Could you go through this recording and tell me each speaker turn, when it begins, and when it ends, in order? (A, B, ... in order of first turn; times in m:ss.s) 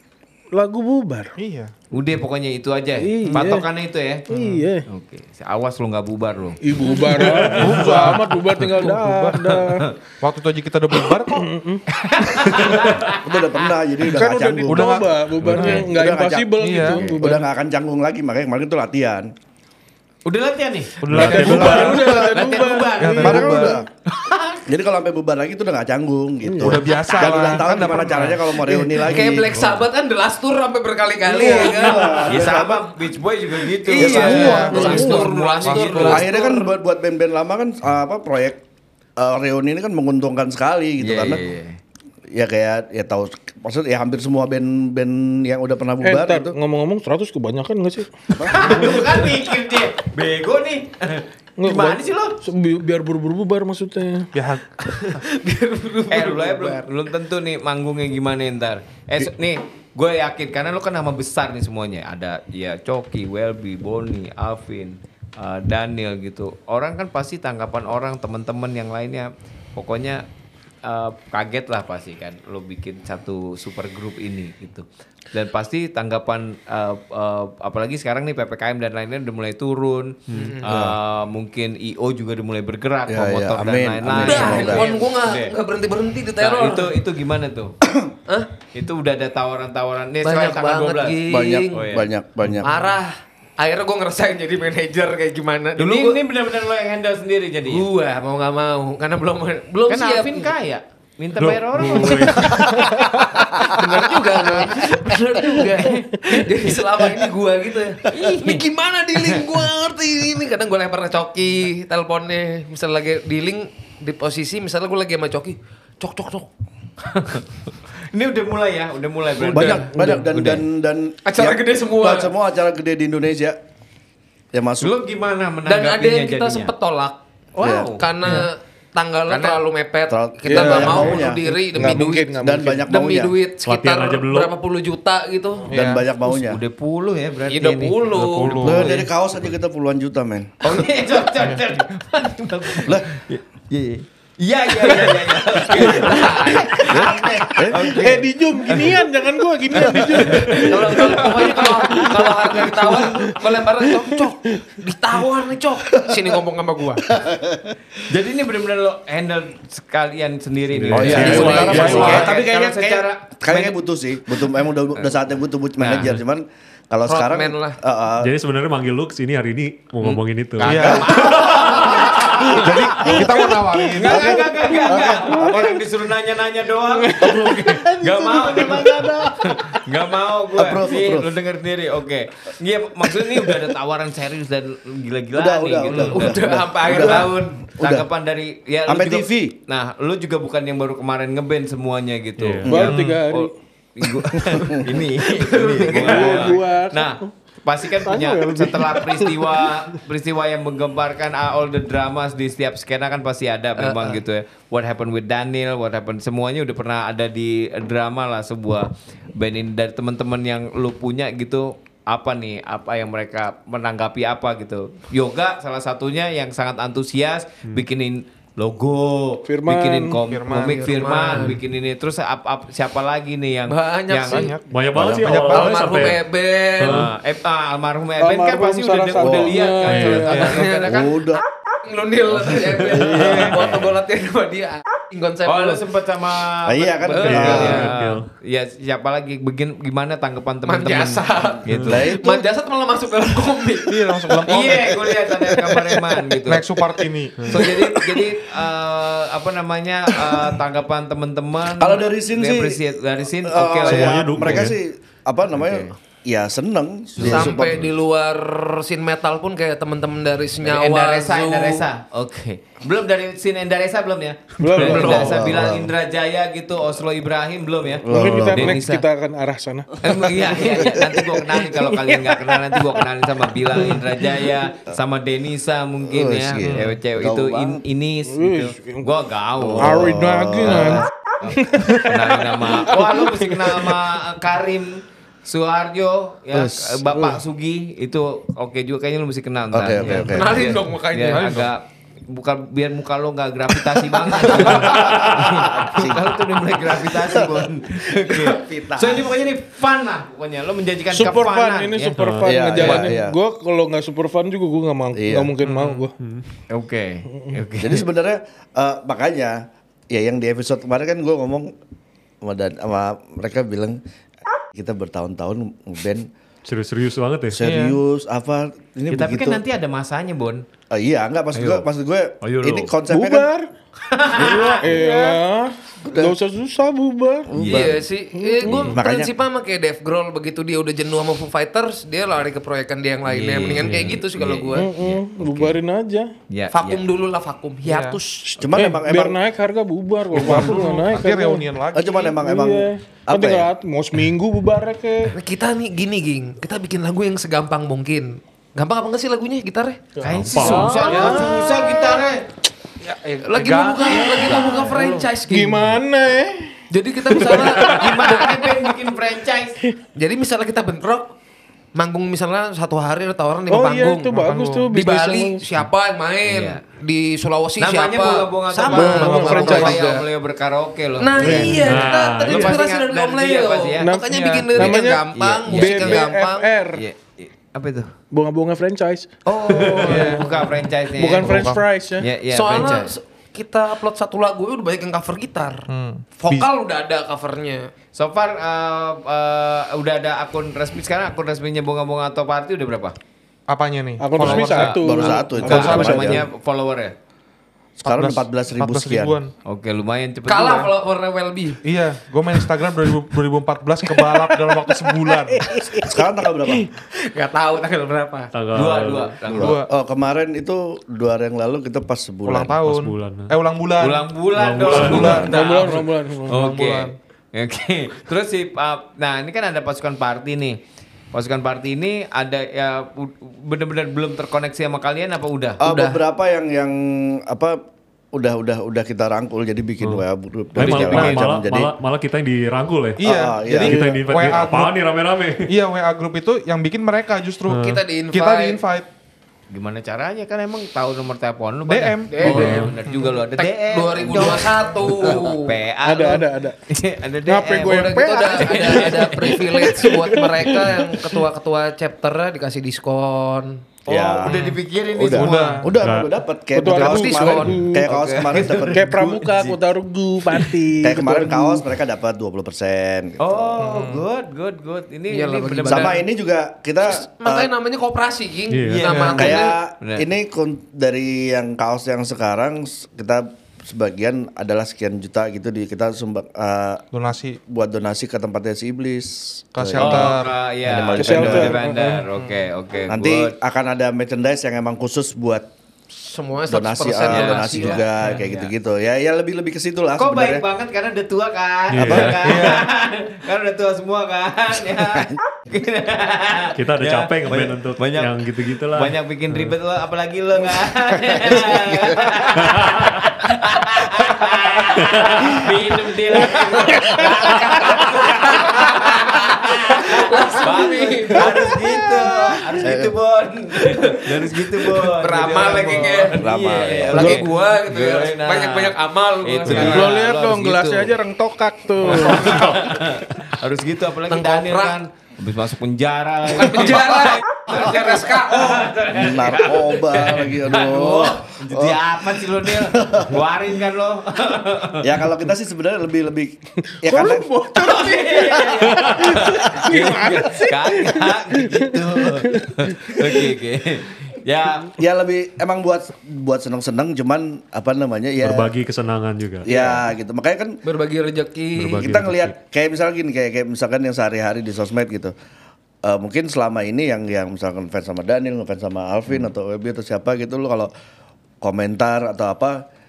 0:00.5-0:01.3 A
0:01.4-0:01.7 B
0:01.9-0:06.6 C
0:03.0-0:03.7 A
0:04.3-0:04.8 A
0:06.6-0:09.9 A
0:06.8-0:07.3 D
0:07.1-0:07.7 C
0:07.3-0:08.0 E
0:07.5-0:09.5 B
0:09.5-0:10.0 C
0:10.2-0:11.5 B
0:11.3-0:11.8 A
0:11.9-0:13.2 C
0:13.2-0:19.3 F
0:14.0-0:17.5 A
0:14.7-0:15.8 B
0:15.5-0:15.8 E
0:16.6-0:17.1 B
0:20.3-0:21.1 C
0:21.0-0:22.4 B
0:21.1-0:22.1 E
0:21.2-0:23.7 A
0:21.4-0:21.9 F
0:21.6-0:24.7 C
0:22.9-0:23.8 B
0:23.2-0:23.9 F
0:24.7-0:29.5 F
0:26.5-0:26.8 A
0:26.6-0:28.7 B
0:28.9-0:32.5 D
0:29.6-0:29.8 E
0:31.2-0:32.9 F
0:32.3-0:36.3 C
0:33.8-0:36.7 D
0:34.0-0:35.0 F
0:34.1-0:35.1 B
0:34.7-0:35.3 A
0:35.6-0:36.2 B
0:36.0-0:38.6 F
0:39.2-0:41.4 F
0:41.0-0:41.8 C
0:42.3-0:46.6 F
0:46.0-0:48.2 A
0:48.4-0:49.2 F
0:48.5-0:52.4 C
0:51.6-0:54.3 A
0:54.3-0:55.1 B
0:55.0-0:56.8 D
0:56.1-1:10.2 C
1:10.8-1:25.5 C
1:20.3-1:20.6 E
1:20.3-1:20.6 D
1:20.7-1:21.0 F
1:23.1-1:24.9 F
1:24.1-1:26.9 D
1:26.4-1:27.7 C
1:27.8-1:28.1 F
1:28.8-1:32.1 C
1:30.2-1:31.8 D
1:31.3-1:32.7 F
1:32.6-1:36.2 D
1:35.8-1:37.8 C
1:37.7-1:40.5 D
1:39.9-1:43.1 C
1:41.4-1:42.7 E
1:42.3-1:56.5 D
1:45.7-1:46.8 C
1:48.1-1:49.4 C
1:57.0-1:57.5 C
1:58.1-2:00.6 C
1:59.4-1:59.9 D
1:59.5-2:03.6 F
1:59.9-2:00.3 A
2:01.2-2:02.3 D
2:04.5-2:05.0 F
2:04.8-2:06.7 C
2:05.7-2:07.2 D
2:07.6-2:08.4 C
2:07.6-2:07.9 F
2:08.0-2:15.7 D
2:09.3-2:09.6 C
2:10.1-2:13.4 F
2:10.5-2:12.8 A
2:10.8-2:11.1 B
2:13.6-2:14.5 E
2:15.7-2:16.6 F
2:15.7-2:16.0 B
2:16.3-2:18.1 C
2:17.5-2:18.7 D
2:18.1-2:18.9 E
2:18.4-2:18.9 B
2:18.6-2:20.6 F
2:18.6-2:19.1 C
2:20.6-2:29.0 C
2:24.8-2:27.0 D
2:26.9-2:28.0 F
2:27.9-2:31.3 A
2:29.8-2:33.1 C
2:30.4-2:37.1 D
2:32.0-2:34.0 A
2:36.0-2:36.3 F
2:37.1-2:37.7 F
2:38.0-2:43.8 C
2:40.7-2:42.2 E
2:40.9-2:48.3 F
2:41.1-2:42.4 D
2:41.1-2:42.3 B
2:45.8-2:46.2 C
2:47.1-2:47.8 D
2:48.2-2:50.9 E
2:50.0-3:44.5 C
2:50.6-2:51.6 B
2:50.7-2:51.9 F
2:52.4-2:54.6 B
2:54.0-2:55.7 F
2:57.2-2:59.8 A
2:57.2-2:57.6 F
3:00.5-3:01.3 F
3:05.3-3:08.1 F
3:05.9-3:07.3 D
3:08.9-3:09.6 F
3:12.4-3:12.7 E
3:12.7-3:12.9 F
3:12.7-3:13.5 A
3:12.8-3:13.2 B
3:14.5-3:14.8 F
3:15.2-3:16.5 D
3:15.9-3:17.3 A
3:18.0-3:19.7 A
3:23.8-3:24.2 D
3:39.4-3:40.2 A
3:40.2-3:41.0 B
3:40.6-3:41.6 D
3:43.7-3:44.6 D
3:44.3-3:46.1 B
3:44.7-3:46.2 E
3:45.0-3:45.4 F
3:45.5-3:47.1 D
3:46.8-3:47.1 E
3:46.8-3:51.1 C
3:48.2-3:50.6 A
3:49.2-3:49.6 F
3:49.9-3:50.3 E
3:50.3-3:55.8 D
3:50.3-3:50.6 B
3:50.8-3:51.4 F
3:52.8-3:53.6 C
3:52.9-3:53.5 F
3:53.5-3:53.9 E
3:55.5-4:02.1 C
3:56.6-3:57.9 F
3:57.1-3:57.8 D
3:57.2-3:58.3 E
4:00.7-4:04.5 D
4:01.7-4:02.0 E
4:01.8-4:02.4 F
4:03.9-4:05.1 B
4:04.4-4:06.7 C
4:06.5-4:07.7 B
4:07.5-4:14.6 C
4:11.7-4:12.8 F
4:13.4-4:17.9 F
4:13.9-4:14.8 E
4:15.6-4:15.9 C
4:17.2-4:17.8 C
4:17.3-4:21.9 D
4:20.6-4:29.0 C
4:24.6-4:25.3 A
4:24.7-4:25.5 D
4:25.0-4:25.9 F
4:28.0-4:28.7 F
4:28.1-4:30.6 A
4:30.0-5:02.2 C
4:30.6-4:30.8 D
4:30.8-4:31.0 F
4:31.8-4:33.0 A
4:36.1-4:37.8 F
4:38.3-4:39.1 A
4:39.6-4:41.0 F
4:39.8-4:44.0 A
4:46.5-4:47.2 F
4:49.7-4:50.8 F
4:50.0-4:51.6 D
4:51.3-4:51.7 B
4:54.3-4:54.6 D
4:54.4-4:57.7 F
4:58.3-4:59.5 D
5:01.1-5:06.2 A
5:02.2-5:02.5 E
5:02.4-5:03.4 F
5:02.8-5:03.1 C
5:05.1-5:05.5 F
5:05.6-5:06.0 C
5:06.7-5:08.0 C
5:07.8-5:11.7 F
5:12.4-5:14.0 F
5:14.7-5:16.3 F
5:16.7-5:17.6 E
5:17.5-5:19.6 F
5:17.6-5:18.0 B
5:19.1-5:20.6 C
5:20.9-5:23.5 F
5:21.6-5:21.8 C
5:22.4-5:22.9 C
5:23.1-5:23.7 A
5:24.1-5:24.8 C
5:24.3-5:27.5 A
5:24.9-5:25.2 D
5:26.0-5:26.4 F
5:27.5-5:28.0 F
5:27.6-5:28.0 C
5:27.7-5:34.9 D
5:28.4-5:29.0 A
5:28.6-5:28.9 C
5:28.9-5:29.3 F
5:33.3-5:35.8 C
5:33.8-5:34.2 E
5:34.8-5:36.3 A
5:36.5-5:37.0 C
5:36.7-5:38.5 D
5:37.8-5:38.2 B
5:38.5-5:41.6 A
5:38.6-5:39.4 F
5:40.3-5:42.4 B
5:41.9-5:43.7 F
5:42.4-5:45.3 A
5:45.3-5:50.0 D
5:50.2-5:51.9 A
5:50.2-5:52.4 C
5:50.4-5:51.0 E
5:50.6-5:52.2 D
5:51.0-5:51.8 B
5:53.0-5:55.2 B
5:53.4-5:55.9 D
5:54.2-5:57.8 A
5:56.9-5:58.7 D
5:57.6-5:59.8 C
6:00.2-6:01.3 D
6:02.0-6:04.3 D
6:03.7-6:05.6 A
6:04.3-6:04.9 B
6:04.9-6:10.2 D
6:06.5-6:06.8 C
6:07.8-6:14.1 C
6:08.9-6:10.2 A
6:11.2-6:16.7 D
6:11.4-6:11.8 A
6:11.7-6:12.8 E
6:14.0-6:17.0 A
6:14.2-6:14.8 B
6:14.8-6:16.3 C
6:17.0-6:18.1 C
6:18.3-6:19.3 A
6:19.5-6:21.7 C
6:19.7-6:20.4 D
6:19.8-6:20.4 A
6:20.0-6:20.5 B
6:21.2-6:22.3 A
6:21.4-6:21.8 B
6:22.2-6:23.1 C
6:22.5-6:27.9 D
6:25.9-6:26.7 B
6:28.2-6:33.2 C
6:33.7-6:36.4 B
6:34.2-6:36.2 A
6:34.4-6:37.1 C
6:35.0-6:36.5 F
6:38.0-6:39.4 F
6:38.1-6:39.5 B
6:39.7-6:40.9 C
6:40.5-6:41.8 D
6:41.8-6:45.6 B
6:44.1-6:48.5 D
6:46.0-6:46.8 F
6:48.5-6:49.4 E
6:48.7-6:49.8 C
6:49.5-6:49.9 B
6:49.5-6:52.8 F
6:52.5-6:57.2 B
6:52.8-6:53.5 E
6:54.0-6:56.0 C
6:54.5-6:55.5 E
6:55.4-6:56.7 A
6:56.5-7:00.8 C
7:01.3-7:05.8 C
7:05.8-7:07.8 F
7:05.8-7:06.2 D
7:08.3-7:11.9 F
7:10.8-7:11.4 C
7:10.8-7:13.2 E
7:10.8-7:11.4 B
7:13.2-7:15.0 B
7:13.2-7:14.0 F
7:13.8-7:15.7 E
7:13.9-7:14.2 A
7:15.7-7:19.1 B
7:17.7-7:18.0 E
7:17.7-7:18.8 D
7:19.7-7:29.8 C
7:21.9-7:23.4 B
7:22.3-7:22.8 D
7:22.5-7:23.0 E
7:23.6-7:25.8 D
7:26.0-7:26.8 A
7:27.5-7:31.4 A
7:27.8-7:33.8 D
7:34.1-7:35.9 C
7:34.1-7:39.1 F
7:35.3-7:35.9 B
7:36.0-7:36.3 E
7:36.7-7:38.1 A
7:36.8-7:37.8 D
7:37.9-7:39.8 C
7:38.9-7:41.8 A
7:41.0-7:43.6 F
7:43.4-7:46.2 C
7:43.8-7:44.2 B
7:45.3-7:46.2 D
7:45.9-7:47.7 F
7:47.0-7:49.8 D
7:48.7-7:49.1 E
7:48.9-7:50.3 C
7:49.1-7:49.5 B
7:49.3-7:57.0 F
7:57.1-7:57.6 B
7:57.7-8:01.8 F
7:59.8-8:00.5 B
8:00.0-8:03.5 C
8:01.2-8:02.3 A
8:03.1-8:05.7 F
8:06.1-8:08.0 D
8:06.7-8:10.6 F
8:07.3-8:08.7 C
8:10.2-8:41.2 C
8:11.9-8:12.6 E
8:12.0-8:12.9 B
8:16.8-8:19.7 E
8:22.6-8:23.1 E
8:25.0-8:25.5 E
8:26.4-8:32.6 D
8:32.8-8:33.1 F
8:33.8-8:36.4 D
8:36.4-8:37.4 F
8:37.1-8:40.1 D
8:39.7-8:42.7 A
8:42.0-8:55.2 C
8:42.5-8:43.0 E
8:44.3-8:45.0 D
8:46.5-8:48.9 D
8:49.1-8:53.4 F
8:55.0-8:57.5 F
8:57.0-9:03.5 A
8:57.7-9:04.9 C
9:04.9-9:08.7 F
9:08.4-9:09.7 E
9:09.6-9:10.8 F
9:10.8-9:12.0 D
9:11.8-9:12.5 E
9:11.8-9:15.3 F
9:16.0-9:20.9 F
9:21.6-9:22.8 F